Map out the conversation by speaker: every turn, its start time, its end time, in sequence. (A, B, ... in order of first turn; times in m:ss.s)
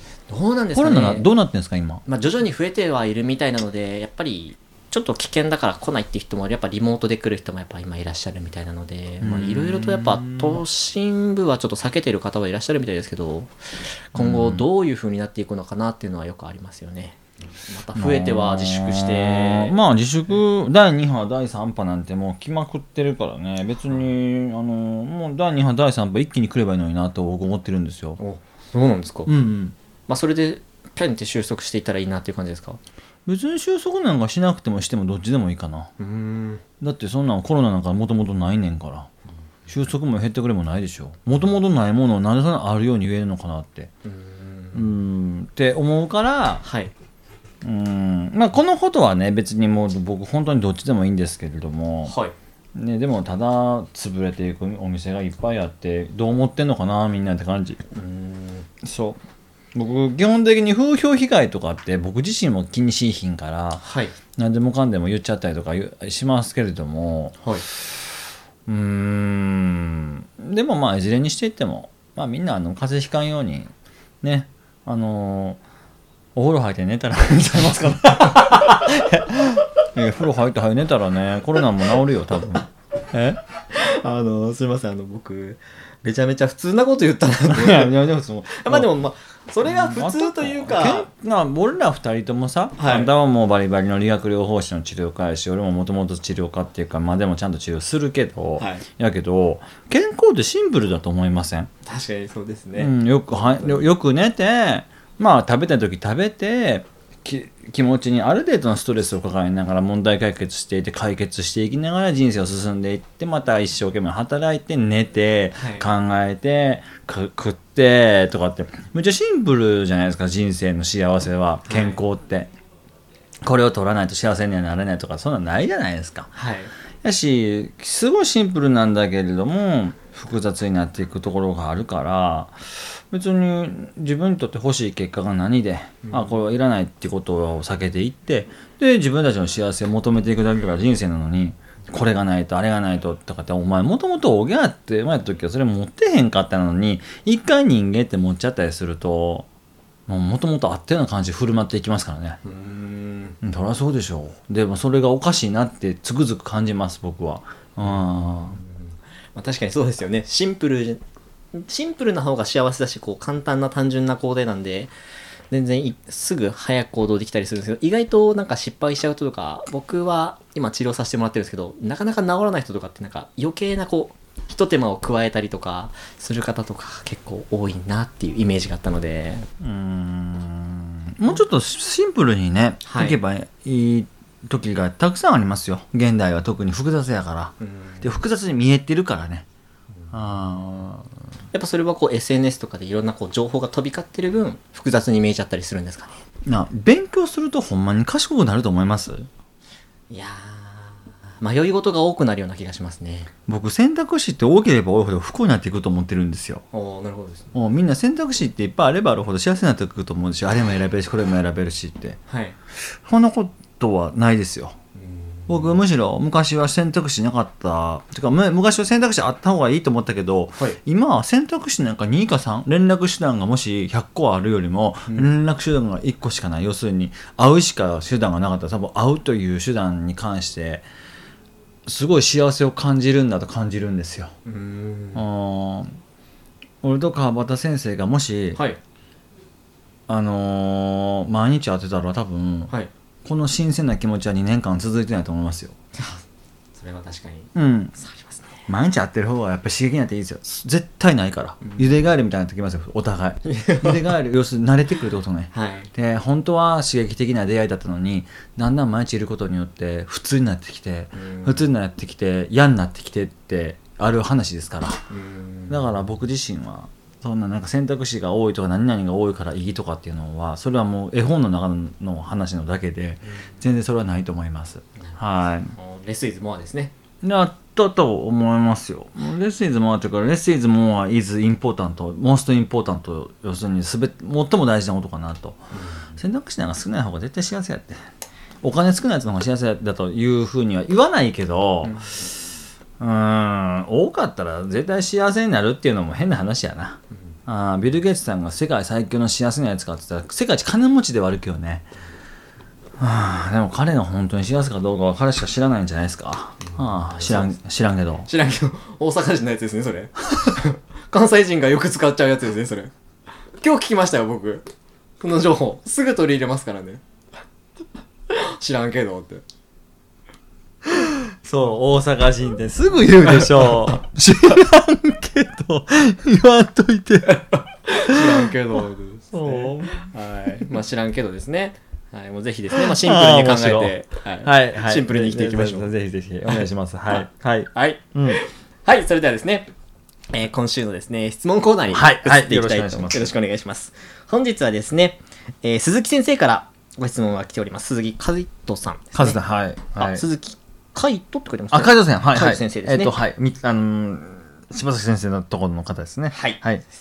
0:00.3-0:01.3 A
0:00.7-0:02.0 B
0:02.0-0:19.8 A
0:09.2-0:10.6 B
0:14.1-0:14.7 B
0:18.0-0:28.2 B
0:28.2-0:29.3 A
0:29.3-0:29.8 B
0:30.1-0:32.8 A
0:33.3-0:35.9 B
0:36.0-0:36.6 A
0:36.8-0:39.1 B
0:39.7-0:43.9 B
0:44.0-0:44.9 A
0:44.7-0:46.7 B
0:46.6-0:46.9 A
0:47.6-0:52.2 B
0:52.1-0:52.3 A
0:52.8-0:57.8 B
0:57.9-0:58.7 A
0:58.8-0:59.2 B
0:59.7-1:03.8 B
1:03.8-1:04.2 A
1:04.4-1:07.9 B
1:08.7-1:13.7 B
1:14.2-1:15.6 B
1:16.4-1:23.4 B
1:23.7-1:28.0 A
1:27.4-1:28.9 B
1:28.5-1:31.1 A
1:29.6-1:41.7 B
1:32.8-1:33.1 A
1:38.6-1:38.8 A
1:41.8-1:43.8 A
1:42.8-2:02.5 B
1:55.6-1:55.9 A
2:01.7-2:02.0 A
2:03.4-2:06.3 B
2:06.4-2:06.7 A
2:07.0-2:29.5 B
2:16.0-2:16.4 A
2:30.1-2:32.4 B
2:32.4-2:33.4 A
2:33.4-2:38.6 B
2:37.8-2:41.0 A
2:41.5-2:44.9 A
2:45.5-2:59.5 A
2:59.6-3:09.5 B
3:02.8-3:03.2 A
3:07.6-3:08.1 A
3:10.1-3:11.1 B
3:11.5-3:16.2 A
3:16.5-3:19.3 B
3:20.1-3:23.3 A
3:23.5-3:26.6 B
3:26.7-3:27.5 A
3:27.5-3:32.2 B
3:32.3-3:32.6 A
3:32.9-3:34.8 B
3:35.0-3:35.8 A
3:35.5-3:50.8 B
3:45.1-3:45.3 A
3:51.9-3:54.3 B
3:54.4-3:55.3 A
3:55.2-3:56.0 B
3:56.8-3:58.6 B
4:00.1-4:02.7 B
4:03.2-4:05.8 B
4:06.0-4:06.2 A
4:06.8-4:08.6 A
4:07.6-4:08.0 B
4:08.7-4:25.1 B
4:11.6-4:11.9 A
4:13.4-4:14.1 A
4:15.5-4:15.9 A
4:21.2-4:21.7 A
4:25.1-4:26.0 A
4:25.7-4:35.8 B
4:35.7-4:36.9 A
4:37.2-4:45.7 B
4:45.7-4:46.2 A
4:46.2-4:48.0 B
4:48.6-4:52.1 B
4:51.8-4:52.3 A
4:53.0-5:01.9 B
5:03.0-5:08.3 B
5:06.6-5:07.6 A
5:08.2-5:12.9 A
5:13.6-5:14.7 A
5:15.2-5:17.0 A
5:18.3-5:19.4 A
5:20.9-5:27.5 B
5:27.3-5:35.9 A
5:28.1-5:28.5 B
5:29.3-5:30.1 B
5:32.7-5:38.4 B
5:36.5-5:37.1 A
5:37.7-5:39.7 A
5:40.3-5:49.4 A
5:41.9-5:43.3 B
5:49.2-5:50.2 B
5:49.9-5:53.2 A
5:51.7-5:56.8 B
5:56.3-5:56.6 A